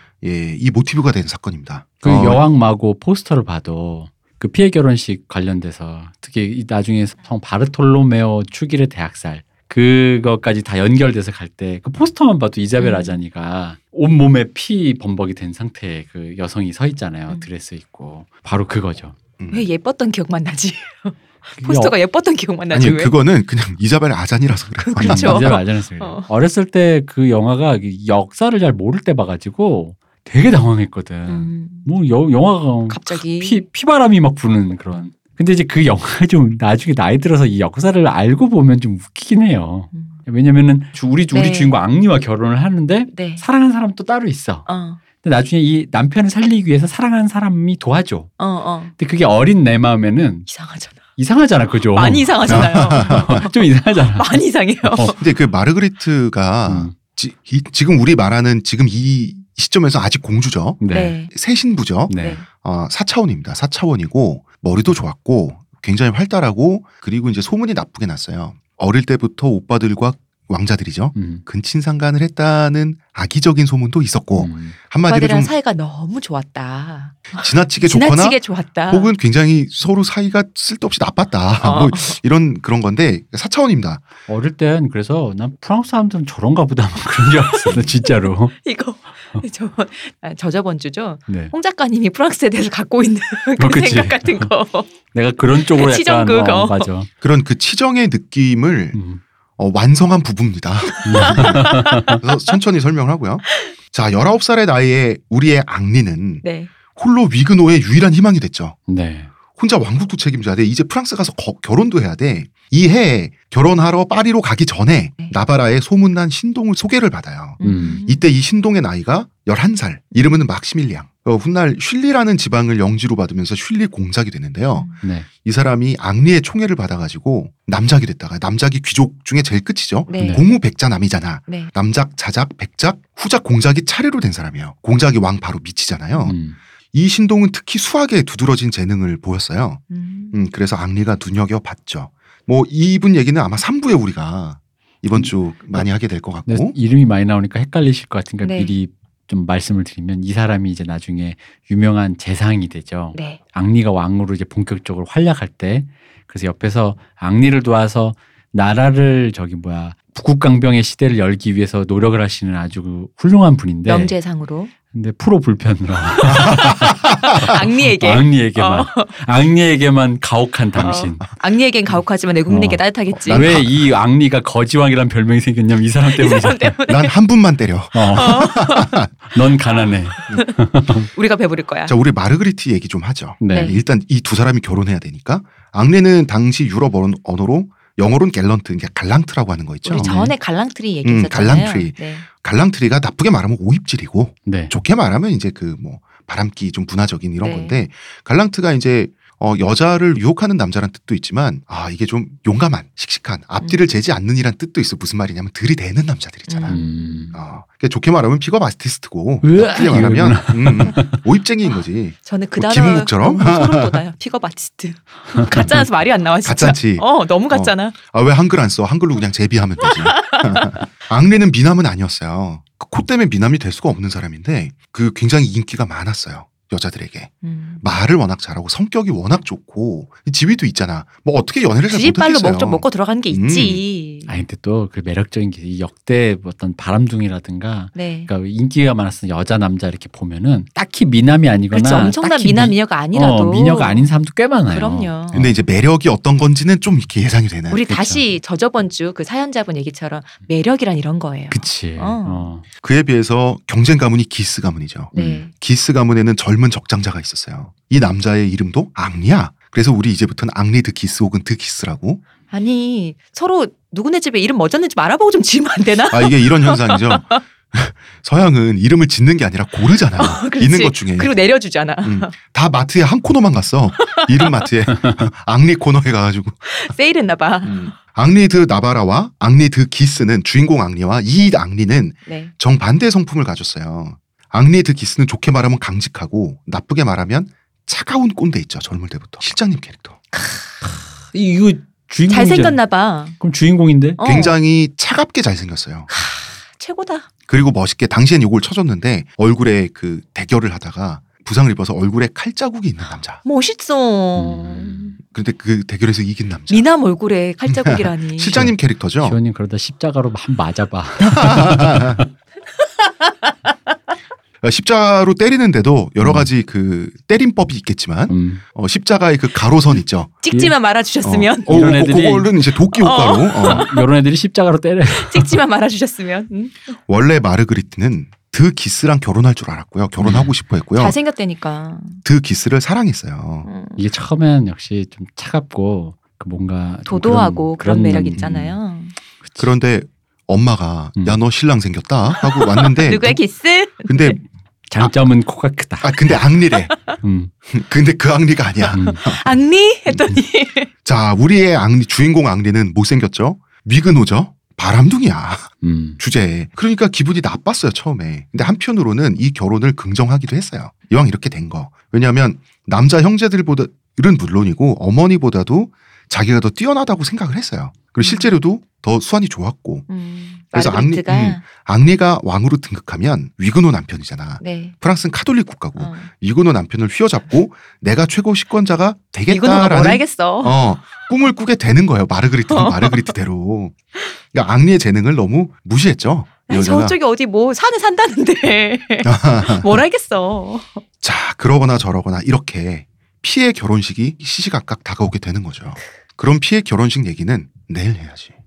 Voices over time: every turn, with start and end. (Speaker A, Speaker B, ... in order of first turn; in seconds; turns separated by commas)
Speaker A: 0.2-2.4, Speaker B: 2.0-19.1, Speaker C: 12.8-13.2, Speaker A: 19.4-19.6, Speaker C: 19.5-23.1, Speaker B: 21.6-21.9, Speaker A: 22.7-25.5, Speaker C: 24.8-26.3, Speaker B: 25.0-44.7, Speaker C: 31.3-31.9, Speaker C: 32.9-33.6, Speaker C: 41.3-41.8, Speaker C: 43.1-43.4, Speaker C: 44.7-45.0, Speaker B: 45.2-48.3, Speaker C: 48.4-48.9, Speaker B: 49.0-50.5, Speaker C: 50.5-51.0, Speaker B: 51.1-55.1, Speaker C: 51.9-53.6, Speaker A: 52.5-53.5, Speaker C: 54.1-55.2, Speaker A: 55.1-75.5, Speaker B: 56.6-56.9, Speaker B: 60.8-61.1, Speaker C: 60.9-61.3, Speaker B: 62.1-62.4, Speaker C: 62.1-62.4, Speaker B: 71.1-71.4, Speaker B: 74.4-74.8, Speaker C: 75.0-79.1, Speaker A: 77.4-84.0, Speaker C: 81.6-82.2, Speaker B: 84.3-88.6, Speaker C: 88.5-94.9, Speaker B: 91.3-91.5, Speaker B: 93.6-94.5, Speaker B: 95.1-97.1, Speaker C: 95.6-96.9, Speaker A: 97.2-99.0, Speaker B: 98.9-99.2, Speaker A: 99.6-108.8, Speaker C: 101.0-102.2, Speaker B: 101.0-102.2, Speaker C: 106.4-106.7, Speaker B: 108.9-109.3, Speaker A: 109.5-124.9, Speaker C: 117.6-118.2, Speaker B: 117.6-118.0, Speaker C: 124.7-125.0, Speaker B: 125.0-125.3, Speaker A: 125.4-136.3, Speaker C: 130.1-130.5, Speaker B: 130.2-130.4, Speaker B: 136.2-136.6, Speaker A: 136.9-139.8, Speaker C: 139.9-140.4, Speaker A: 140.3-146.7, Speaker B: 145.2-145.8, Speaker B: 146.4-164.1, Speaker C: 148.4-148.7, Speaker C: 153.1-153.4, Speaker C: 163.8-164.7, Speaker B: 164.9-171.2, Speaker C: 166.4-169.1, Speaker C: 170.8-173.5, Speaker B: 172.5-176.8, Speaker A: 173.1-173.7, Speaker C: 176.1-177.1, Speaker A: 176.9-179.1, Speaker B: 177.9-178.5, Speaker C: 178.1-179.0, Speaker B: 179.3-181.1, Speaker C: 179.7-180.6, Speaker C: 181.1-181.9, Speaker A: 181.8-190.1, Speaker B: 183.4-183.8, Speaker C: 183.5-183.8, Speaker C: 189.8-192.2, Speaker B: 190.0-190.3, Speaker A: 191.0-206.8, Speaker B: 194.4-194.7, Speaker C: 197.4-197.8, Speaker C: 206.5-207.3, Speaker B: 206.7-207.3, Speaker A: 207.3-214.0, Speaker B: 209.4-211.2, Speaker C: 212.2-218.0, Speaker A: 216.4-233.8, Speaker C: 219.8-220.8, Speaker C: 227.4-227.9, Speaker C: 231.9-234.4, Speaker B: 234.3-245.5, Speaker C: 237.9-238.3, Speaker C: 241.7-244.1, Speaker C: 244.7-245.5, Speaker A: 245.3-247.8, Speaker C: 247.7-252.5, Speaker B: 247.9-248.2, Speaker B: 251.5-252.6, Speaker A: 252.8-262.2, Speaker C: 255.1-255.5, Speaker B: 255.2-255.4, Speaker C: 262.5-267.4, Speaker A: 266.1-271.3, Speaker C: 270.1-272.4, Speaker A: 272.0-276.6, Speaker C: 274.0-274.5, Speaker C: 276.7-277.9, Speaker A: 277.6-290.2, Speaker C: 282.3-282.5, Speaker B: 290.8-292.8, Speaker C: 292.3-293.4, Speaker B: 293.4-294.2, Speaker C: 294.2-294.5, Speaker A: 294.2-296.1, Speaker C: 296.1-297.3, Speaker A: 297.5-303.4, Speaker C: 303.4-305.2, Speaker B: 304.4-305.1, Speaker A: 305.2-306.9, Speaker C: 306.7-308.6, Speaker A: 307.7-309.4, Speaker B: 308.5-312.3, Speaker A: 311.2-312.2, Speaker A: 314.6-320.4, Speaker B: 316.2-316.5, Speaker B: 318.3-318.6, Speaker C: 320.4-321.9, Speaker A: 321.2-323.9, Speaker B: 321.7-322.5, Speaker C: 322.9-324.0, Speaker B: 323.6-325.6, Speaker C: 325.3-327.0, Speaker A: 327.1-331.1, Speaker B: 330.2-330.5, Speaker C: 330.9-332.2, Speaker A: 332.2-333.7, Speaker C: 333.6-334.0, Speaker B: 334.0-338.8, Speaker C: 337.1-339.1, Speaker A: 338.2-338.4, Speaker B: 339.4-339.7, Speaker A: 339.6-343.4, Speaker C: 342.3-344.4, Speaker A: 344.0-344.4, Speaker B: 344.9-346.4, Speaker A: 346.0-346.9, Speaker B: 347.2-347.5, Speaker A: 347.7-349.4, Speaker B: 348.9-349.2, Speaker C: 349.1-350.9, Speaker A: 350.1-350.3, Speaker A: 351.0-370.1, Speaker B: 355.8-356.2, Speaker C: 368.2-368.5, Speaker C: 370.1-371.6, Speaker A: 370.7-383.9, Speaker C: 374.6-374.9, Speaker C: 375.9-376.3, Speaker C: 379.5-380.8, Speaker C: 382.7-383.3, Speaker A: 384.5-387.1, Speaker C: 386.7-391.0, Speaker A: 389.2-390.0, Speaker A: 391.2-398.6